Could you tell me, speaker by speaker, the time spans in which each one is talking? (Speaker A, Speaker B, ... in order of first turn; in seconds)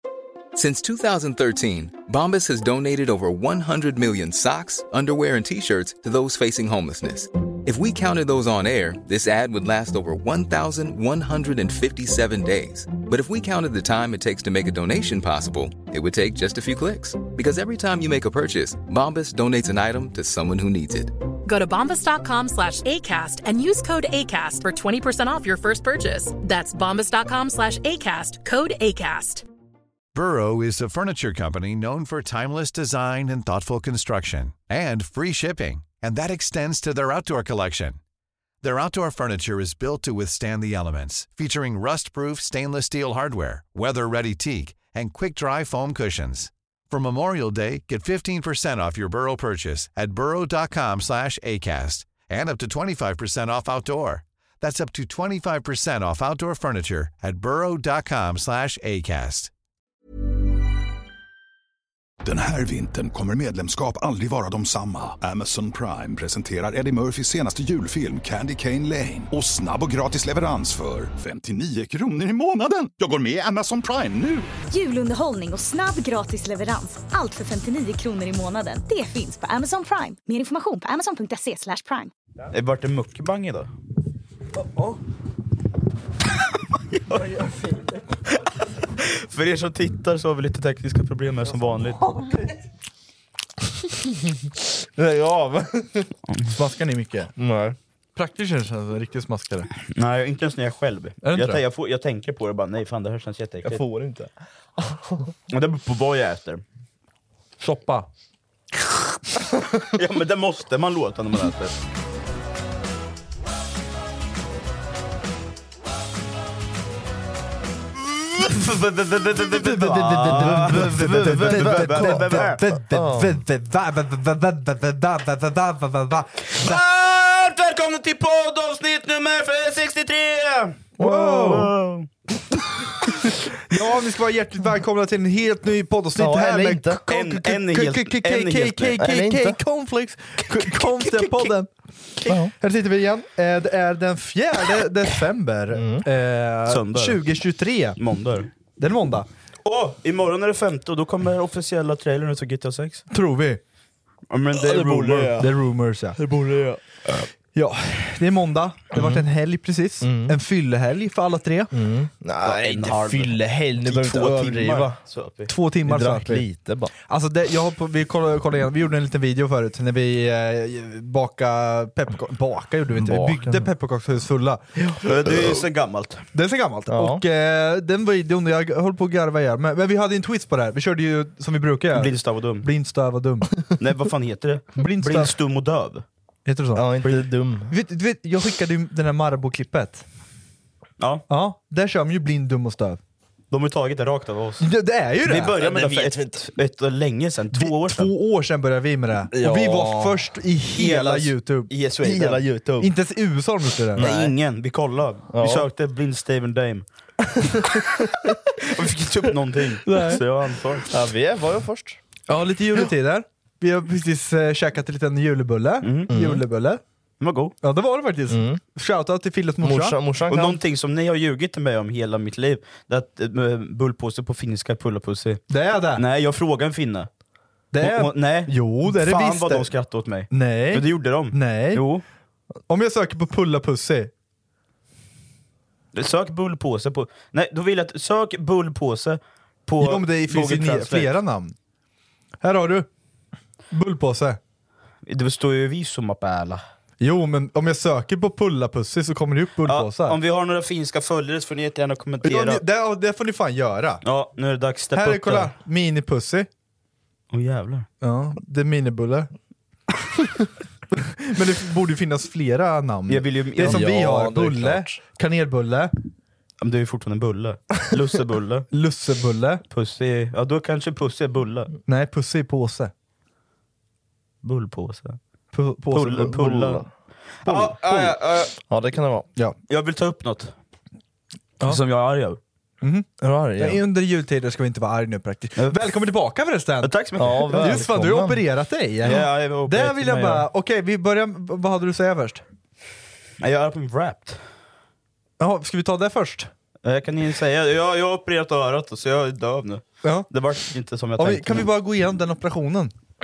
Speaker A: 0.5-21.1
Speaker B: 21.4-29.4
Speaker C: 30.1-38.0, 38.6-59.5
Speaker D: 62.2-74.5
Speaker E: 74.7-82.1
Speaker F: 82.5-83.7, 86.9-87.2, 88.3-92.0, 99.9-103.8, 105.5-106.6, 109.8-111.7, 118.3-122.6, 126.5-132.1, 137.1-139.0, 140.5-141.5, 146.7-147.2, 148.0-148.5, 149.6-153.0, 154.3-155.4, 162.4-165.5, 175.0-176.2, 181.9-182.7, 183.8-186.0, 191.0-191.2, 193.5-194.7, 195.2-198.1, 200.8-202.4, 204.0-206.9, 208.6-210.9, 215.8-216.1, 217.2-217.5, 220.3-227.1, 227.8-232.0, 235.9-241.1, 245.1-246.6, 249.6-252.6, 254.0-255.6, 257.3-257.9, 263.1-263.8, 266.6-268.7, 269.7-271.7, 274.4-275.2, 275.9-278.2, 279.7-280.5, 281.6-282.4, 286.8-287.8, 289.0-290.5, 293.4-294.4, 296.8-301.7
Speaker G: 84.6-85.0, 87.1-88.0, 92.0-92.5, 96.5-97.3, 98.2-99.7, 101.2-101.6, 107.6-108.1, 119.4-126.8, 131.0-131.7, 133.7-141.7, 142.5-148.0, 148.7-149.3, 153.1-153.6, 155.4-156.2, 157.5-161.7, 165.4-174.8, 176.3-183.5, 184.8-185.3, 186.4-190.0, 191.3-193.0, 194.6-195.5, 197.5-201.7, 202.8-204.1, 209.8-210.2, 212.3-216.8, 217.6-220.0, 225.5-226.0, 227.7-231.8, 232.7-234.1, 239.8-241.5, 242.4-242.9, 243.7-244.4, 247.0-250.2, 252.2-254.0, 254.9-256.5, 258.0-259.3, 260.9-265.9, 268.7-269.6, 271.9-272.9, 275.5-276.6, 277.4-278.5, 282.8-292.4, 295.4-296.5, 300.0-300.3, 301.1-302.9
Speaker H: 94.9-96.2, 97.3-97.8, 103.6-105.3, 120.3-123.3, 131.0-131.7, 136.2-137.0, 139.0-139.6, 142.3-142.5, 145.7-146.1, 154.5-155.5, 156.2-157.3, 158.9-159.2, 160.0-160.4, 161.7-165.0, 165.8-166.9, 172.9-173.7, 174.8-175.6, 176.9-177.2, 186.7-187.7, 195.6-196.4, 199.3-200.2, 202.0-202.9, 203.9-204.3, 205.3-205.7, 210.9-212.0, 216.1-216.4, 218.3-218.6, 219.6-220.6, 227.8-228.1, 263.6-265.0, 276.2-279.3, 283.2-283.8, 287.2-288.4